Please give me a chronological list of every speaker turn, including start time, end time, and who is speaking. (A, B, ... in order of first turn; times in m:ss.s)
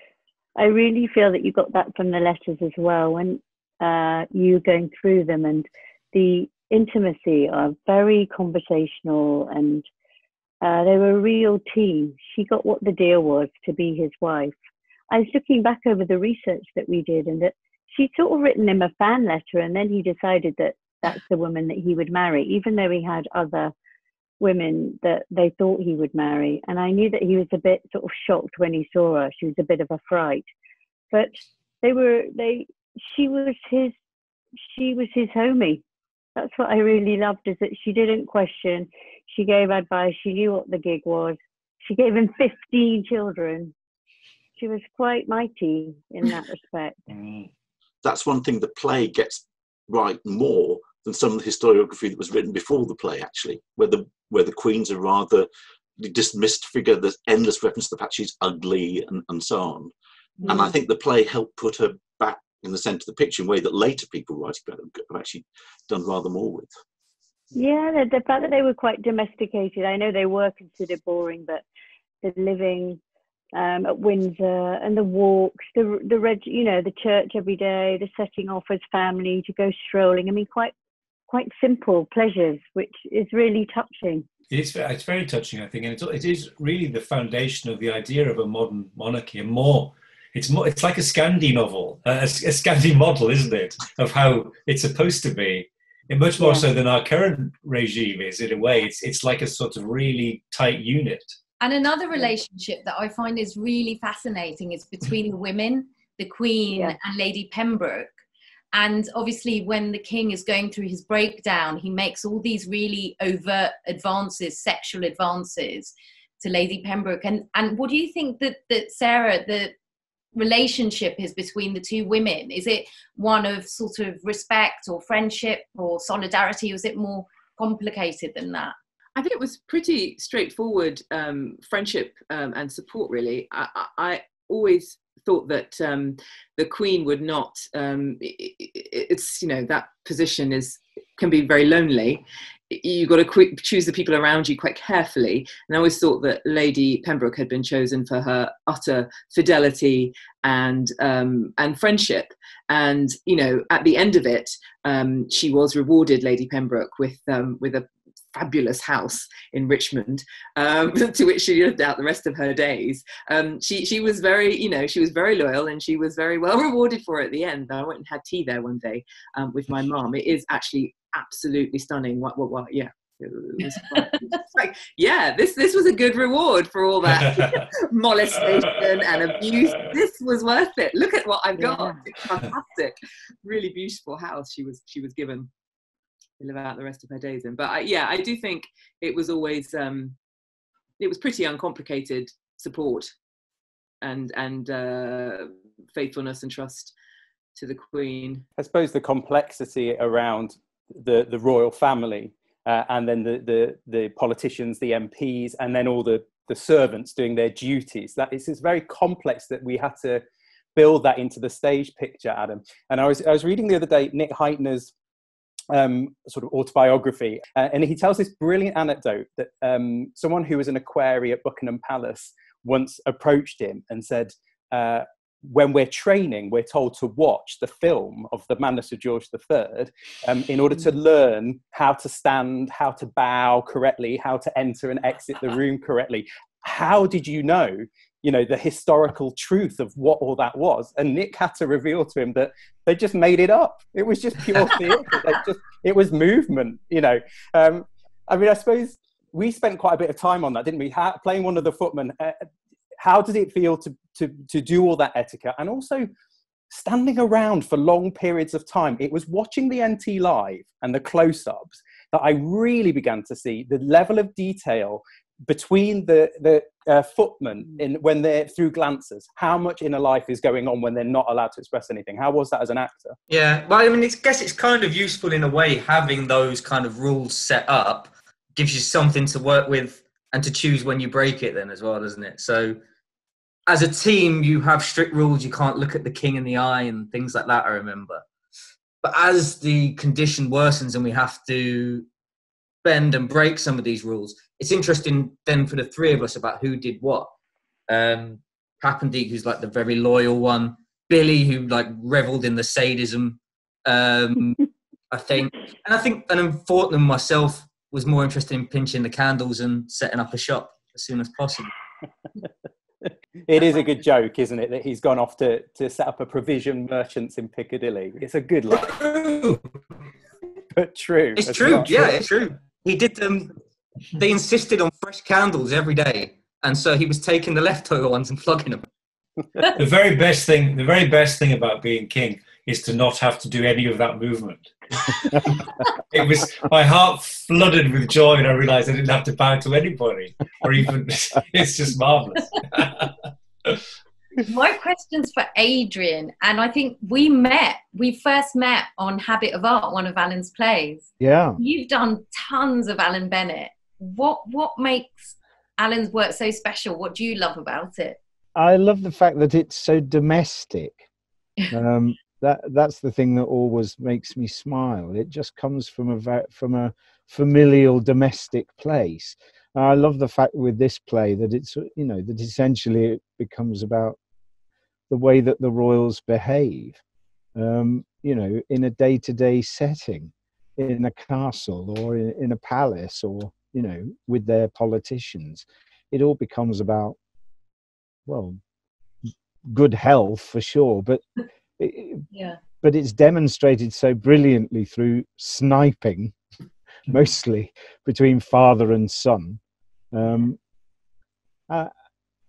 0:00.6-0:09.8 A
0:10.6-0:14.5 A
0:15.1-0:23.7 A
0:24.4-0:30.5 A
0:31.1-0:33.9 A
0:34.7-0:35.8 A
0:36.4-0:43.7 A
0:44.6-0:47.0 A
0:47.1-0:47.5 B
0:48.0-0:59.9 C
1:00.4-1:00.7 A
1:00.4-1:06.7 C
1:07.5-1:11.6 A
1:12.2-1:13.0 A
1:13.5-1:20.7 A
1:21.3-1:24.2 A
1:24.5-1:41.4 B
1:36.4-1:36.6 A
1:41.6-1:48.1 D
1:46.7-1:47.0 A
1:48.7-1:59.7 D
2:00.3-2:08.7 D
2:09.2-3:05.5 E
2:57.0-2:57.6 B
2:58.5-2:59.2 B
3:01.6-3:02.0 A
3:06.4-3:10.2 E
3:11.0-3:13.1 E
3:14.0-3:16.9 E
3:17.5-3:18.4 E
3:18.6-3:30.2 F
3:30.7-3:34.9 F
3:35.7-4:12.5 F
4:13.0-4:16.1 F
4:16.7-4:33.2 F
4:33.3-4:42.8 G
4:43.7-4:48.2 G
4:49.0-4:52.1 G
4:52.8-4:57.3 G
4:57.9-5:11.7 G
5:13.0-5:19.1 F
5:19.0-5:19.6 B
5:20.7-5:22.2 F
5:21.4-5:23.6 G
5:24.2-5:28.8 G
5:29.7-5:43.8 B
5:44.4-5:58.2 D
5:51.2-5:51.6 H
5:58.5-6:01.0 H
6:01.7-6:14.2 H
6:15.1-6:17.0 H
6:17.5-6:27.2 H
6:28.2-6:28.6 H
6:29.6-6:31.2 H
6:31.8-6:32.2 H
6:32.3-6:32.6 D
6:32.8-6:36.3 H
6:37.1-6:39.6 H
6:40.1-6:40.6 H